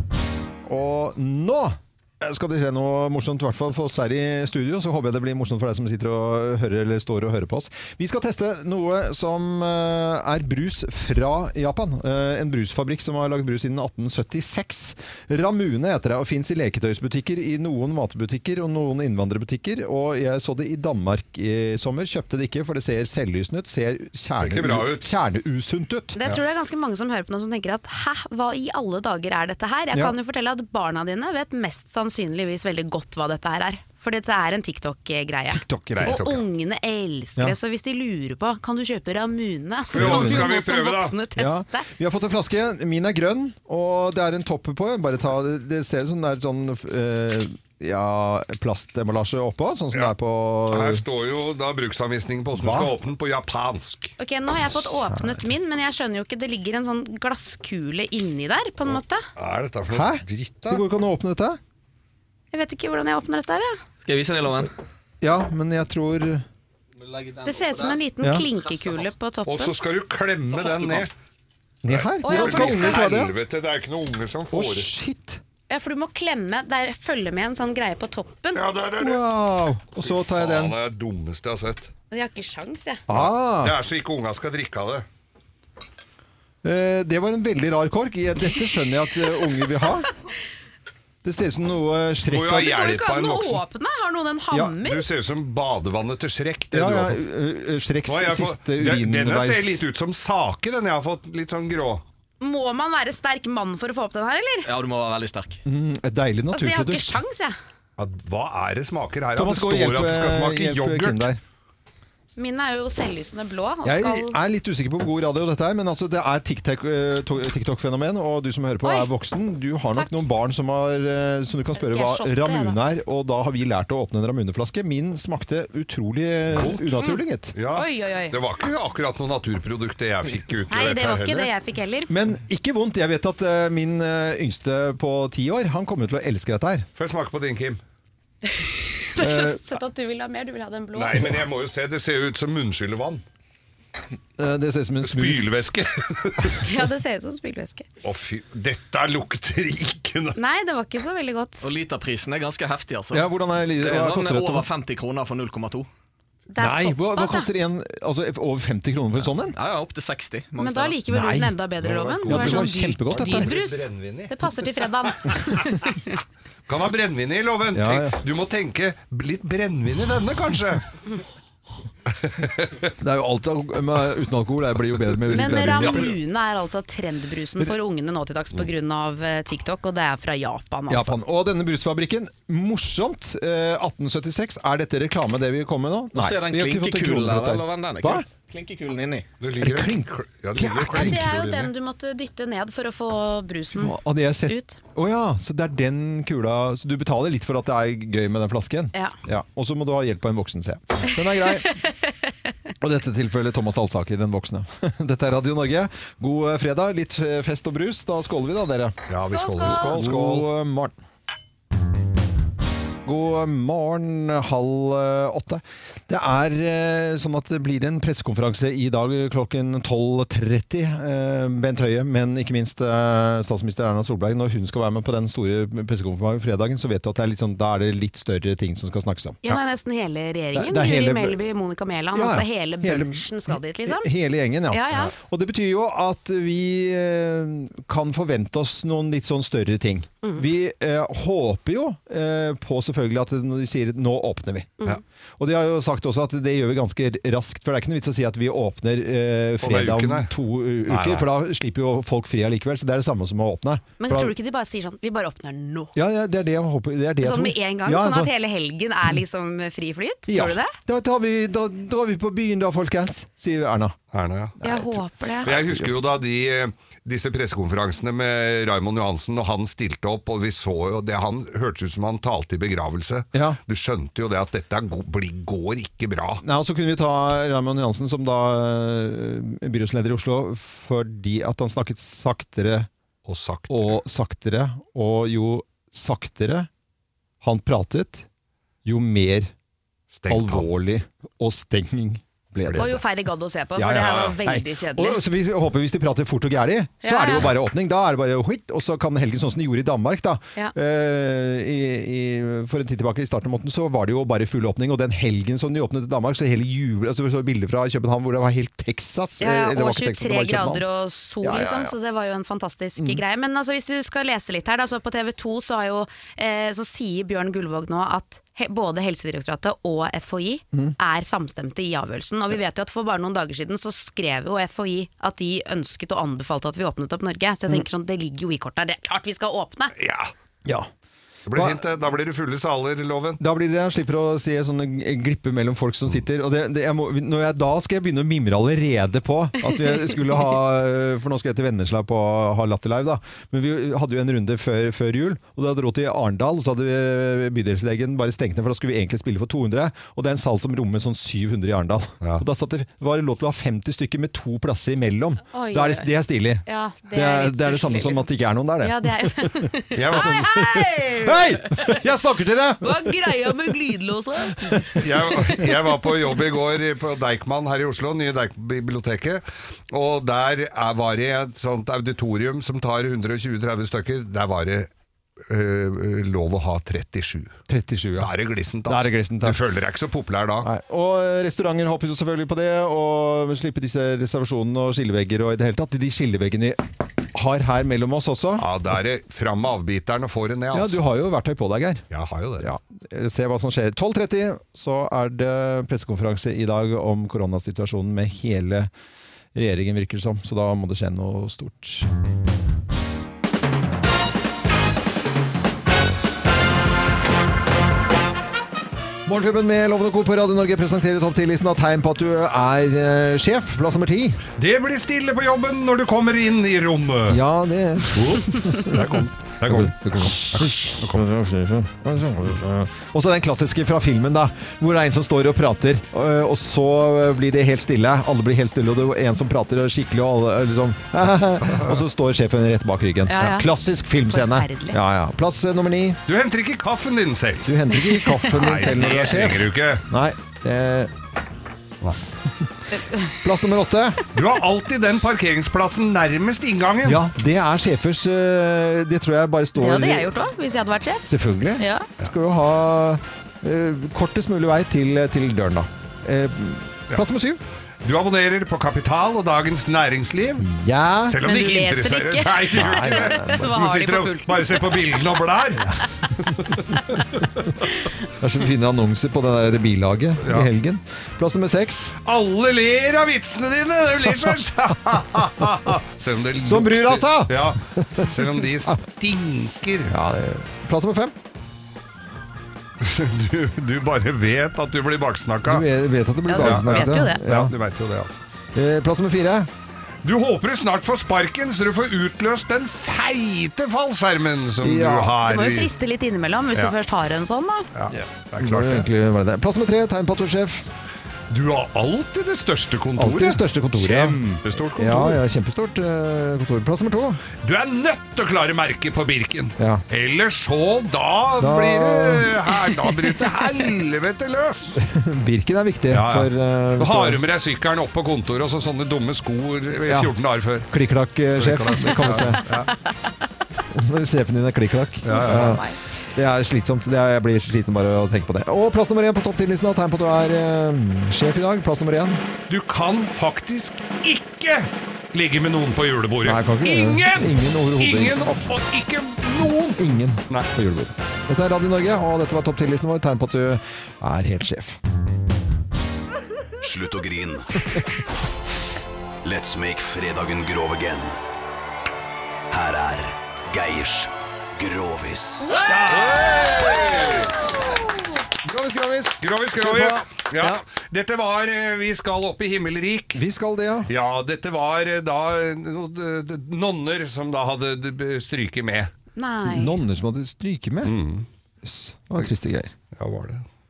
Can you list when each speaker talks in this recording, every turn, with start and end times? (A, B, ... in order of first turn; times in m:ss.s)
0:00.7-0:26.2 A
0:24.4-0:25.0 B
0:26.2-0:41.9 C
0:35.5-0:36.2 A
0:36.0-0:36.4 B
0:39.9-0:41.2 B
0:39.9-0:40.5 A
0:41.4-0:51.0 A
0:50.7-0:54.1 B
0:52.5-0:52.9 A
0:54.2-0:59.2 C
0:54.8-0:55.5 A
0:59.4-1:00.8 B
0:59.9-1:01.6 A
1:02.5-1:03.8 C
1:04.0-1:04.7 D
1:05.2-1:06.5 A
1:07.0-1:08.0 D
1:07.4-1:09.8 C
1:08.2-1:08.5 A
1:08.6-1:09.0 D
1:09.5-1:11.1 B
1:10.5-1:11.1 D
1:11.8-1:13.3 A
1:11.9-1:14.9 B
1:12.2-1:13.0 C
1:14.5-1:15.4 A
1:15.7-1:18.6 C
1:18.6-1:19.2 B
1:19.0-1:20.8 A
1:20.0-1:21.9 B
1:22.1-1:23.0 C
1:23.1-1:23.8 A
1:23.1-1:25.0 B
1:26.6-1:30.1 A
1:31.2-1:32.7 A
1:32.3-1:33.6 B
1:32.6-1:35.0 C
1:34.8-1:37.2 B
1:36.7-1:39.8 A
1:38.0-1:42.0 B
1:42.4-1:44.7 C
1:44.7-1:45.6 D
1:45.6-1:47.2 A
1:46.5-1:47.6 C
1:48.0-1:51.3 B
1:49.4-1:51.4 A
1:52.3-1:54.4 C
1:53.8-2:07.6 A
1:59.9-2:00.2 C
2:01.8-2:02.8 C
2:06.5-2:06.9 B
2:07.6-2:11.5 B
2:07.7-2:08.4 C
2:10.7-2:12.1 C
2:12.1-2:16.9 A
2:17.0-2:17.8 B
2:18.5-2:21.3 C
2:19.2-2:19.8 A
2:21.0-2:23.2 B
2:24.4-2:25.5 A
2:25.0-2:26.6 B
2:26.6-2:27.8 C
2:28.0-2:30.4 B
2:30.4-2:31.6 C
2:31.6-2:35.9 D
2:33.1-2:34.7 A
2:36.5-2:37.5 C
2:36.6-2:39.6 A
2:39.6-2:41.0 D
2:40.6-2:45.7 C
2:41.1-2:41.6 A
2:42.0-2:44.5 B
2:42.2-2:43.5 A
2:46.7-2:50.8 B
2:47.7-2:48.2 A
2:52.2-2:52.9 B
2:53.0-2:56.1 A
2:55.3-3:01.2 C
2:55.3-2:56.1 B
3:00.9-3:08.3 A
3:06.2-3:09.3 D
3:09.4-3:11.7 B
3:09.6-3:11.3 A
3:10.9-3:14.8 C
3:13.7-3:21.7 A
3:22.8-3:29.0 A
3:29.1-3:30.5 B
3:29.2-3:30.0 C
3:29.7-3:31.0 A
3:33.0-3:49.4 A
3:49.4-3:54.1 C
3:50.5-3:51.4 A
3:52.1-4:04.8 A
3:54.7-3:55.1 C
4:05.4-4:14.3 A
4:09.6-4:10.3 B
4:10.9-4:11.3 B
4:14.0-4:15.9 C
4:16.0-4:18.3 A
4:17.2-4:20.8 C
4:20.3-4:24.0 A
4:24.1-4:24.6 B
4:24.6-4:25.9 A
4:24.6-4:25.5 C
4:25.4-4:36.4 B
4:36.4-4:42.9 A
4:43.3-4:44.0 B
4:43.7-4:46.7 A
4:47.4-4:48.3 A
4:48.8-4:49.5 A
4:50.1-4:50.7 B
4:50.3-4:53.0 A
4:52.6-4:52.9 B
4:52.8-4:55.2 C
4:53.8-5:10.8 A
4:54.0-4:54.4 B
4:57.0-4:57.4 C
5:09.4-5:29.9 C
5:11.4-5:11.9 A
5:30.0-5:30.3 B
5:31.5-5:33.4 B
5:31.5-5:31.8 A
5:33.4-6:03.4 A
5:55.5-5:56.1 C
5:56.6-5:58.3 C
5:58.8-6:01.8 C
5:59.9-6:00.5 B
6:02.8-6:05.7 C
6:05.0-6:14.9 B
6:15.5-6:17.6 B
6:17.7-6:18.3 A
6:18.2-6:20.7 B
6:18.9-6:19.6 A
6:20.6-6:28.7 A
6:28.6-6:31.0 B
6:30.7-6:32.0 A
6:32.1-6:32.7 B
6:32.6-6:38.9 A
6:39.5-6:42.1 A
6:49.3-6:54.4 A
6:54.6-6:57.4 B
6:57.3-6:59.0 A
6:58.1-7:01.2 B
6:59.7-7:16.2 A
7:11.7-7:12.0 B
7:13.3-7:13.7 C
7:14.2-7:15.0 C
7:16.3-7:17.7 B
7:17.7-7:21.1 A
7:17.9-7:18.9 C
7:18.5-7:20.0 B
7:22.4-7:22.7 A
7:23.0-7:23.4 C
7:23.2-7:24.2 A
7:24.3-7:27.2 B
7:27.0-7:30.3 A
7:29.8-7:32.1 C
7:31.3-7:37.6 A
7:38.0-7:40.7 B
7:40.6-7:41.4 A
7:41.3-7:47.5 B
7:41.4-7:45.0 C
7:42.8-7:43.7 A
7:48.4-7:52.2 A
7:50.4-7:50.7 B
7:52.2-8:00.2 B
7:56.6-7:59.0 A
8:00.1-8:01.4 A
8:03.0-8:05.9 B
8:05.7-8:07.7 A
8:06.5-8:07.4 C
8:06.6-8:08.4 B
8:08.8-8:09.7 A
8:10.2-8:15.9 B
8:14.8-8:15.4 A
8:15.4-8:17.9 C
8:18.0-8:19.1 B
8:18.1-8:20.9 A
8:21.5-8:25.4 B
8:23.2-8:24.4 A
8:24.9-8:27.4 A
8:27.6-8:35.0 B
8:31.6-8:32.6 A
8:35.0-8:37.4 A
8:36.1-8:40.9 B
8:40.1-8:40.3 A
8:40.9-8:42.7 A
8:41.6-8:42.9 B
8:43.9-8:52.4 A
8:45.2-8:45.8 B
8:45.3-8:46.0 C
8:52.7-9:00.0 B
8:56.4-8:58.7 A
8:59.6-9:05.0 A
9:06.8-9:07.7 E
9:09.4-9:11.4 E
9:12.7-9:15.7 E
9:15.7-9:17.8 B
9:18.6-9:20.8 A
9:19.4-9:23.4 B
9:23.4-9:24.1 A
9:24.1-9:29.1 B
9:29.4-9:30.0 C
9:29.6-9:31.1 A
9:31.0-9:31.5 B
9:31.8-9:32.9 A
9:33.1-9:33.6 B